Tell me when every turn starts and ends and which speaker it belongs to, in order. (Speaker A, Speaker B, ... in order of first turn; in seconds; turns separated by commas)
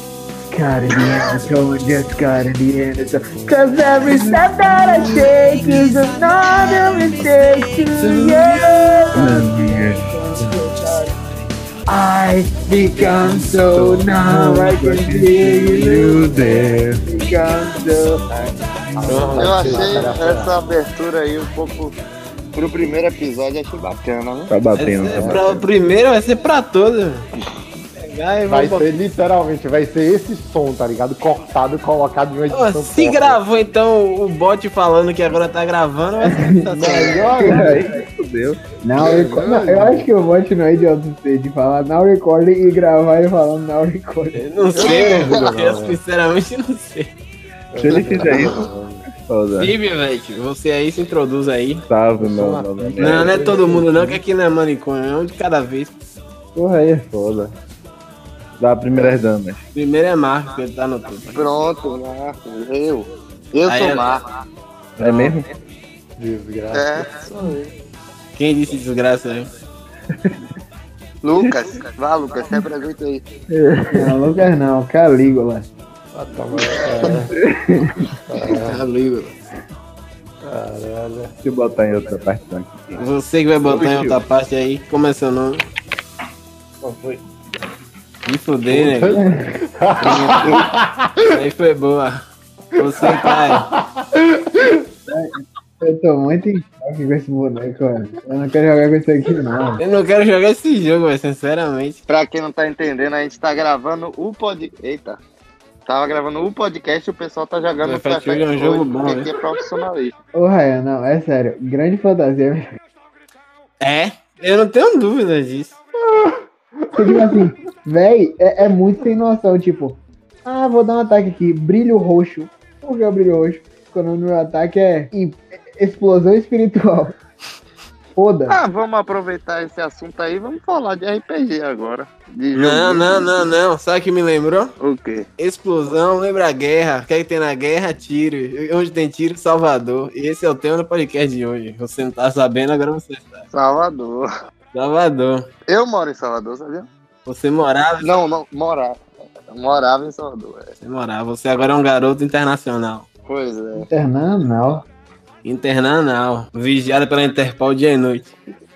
Speaker A: 0.5-11.2, Speaker B: 4.7-9.1, Speaker C: 9.1-10.1, Speaker A: 11.9-20.0, Speaker C: 13.7-17.0, Speaker B: 19.1-19.9, Speaker D: 19.1-20.5, Speaker C: 19.1-19.4, Speaker E: 19.4-21.9, Speaker E: 22.5-24.5, Speaker C: 24.5-25.5, Speaker B: 24.7-27.3, Speaker D: 25.1-25.4, Speaker B: 28.0-28.9, Speaker D: 28.5-33.4, Speaker B: 32.5-37.4, Speaker A: 36.2-37.9, Speaker D: 36.7-37.8, Speaker C: 37.4-38.6, Speaker A: 38.8-44.4, Speaker D: 39.0-40.1, Speaker B: 44.3-47.1, Speaker E: 44.7-45.4, Speaker D: 44.8-46.0, Speaker D: 47.7-49.0, Speaker C: 47.8-49.7, Speaker E: 48.2-48.5, Speaker B: 49.6-51.8, Speaker C: 51.9-54.1, Speaker D: 52.1-54.1, Speaker B: 53.0-56.0, Speaker C: 56.5-57.5, Speaker C: 58.6-59.6, Speaker B: 59.7-61.4, Speaker E: 61.3-64.2, Speaker B: 63.6-64.0, Speaker C: 65.0-65.5, Speaker B: 65.0-65.4, Speaker D: 66.2-67.1, Speaker E: 66.7-67.7, Speaker B: 68.3-69.5, Speaker E: 71.2-73.2, Speaker C: 73.5-74.3, Speaker A: 73.9-75.7, Speaker D: 76.1-77.3, Speaker A: 77.1-78.1, Speaker D: 78.2-78.8, Speaker B: 78.6-79.3, Speaker D: 80.4-81.3, Speaker C: 81.4-83.0, Speaker B: 83.0-85.6, Speaker C: 83.6-84.2, Speaker C: 86.8-87.2, Speaker B: 88.2-89.2, Speaker D: 88.7-91.4, Speaker A: 89.2-89.6, Speaker B: 90.0-90.7, Speaker B: 91.3-92.2, Speaker B: 92.8-93.7, Speaker D: 92.8-94.9, Speaker A: 95.1-99.8, Speaker B: 99.8-102.0, Speaker E: 102.1-105.2, Speaker E: 105.8-110.1, Speaker B: 107.8-109.3, Speaker A: 110.3-112.7, Speaker B: 113.8-115.8, Speaker D: 116.0-117.4, Speaker A: 116.9-127.2, Speaker A: 128.2-128.6, Speaker E: 128.5-133.3, Speaker B: 132.5-134.7, Speaker E: 134.8-135.2, Speaker B: 135.4-143.5, Speaker E: 143.5-144.3, Speaker B: 144.7-145.5, Speaker E: 145.7-146.9, Speaker B: 147.2-148.2, Speaker E: 148.0-149.0, Speaker E: 149.5-150.7, Speaker B: 150.8-153.1, Speaker E: 153.2-153.9, Speaker A: 153.9-154.8, Speaker B: 155.4-158.3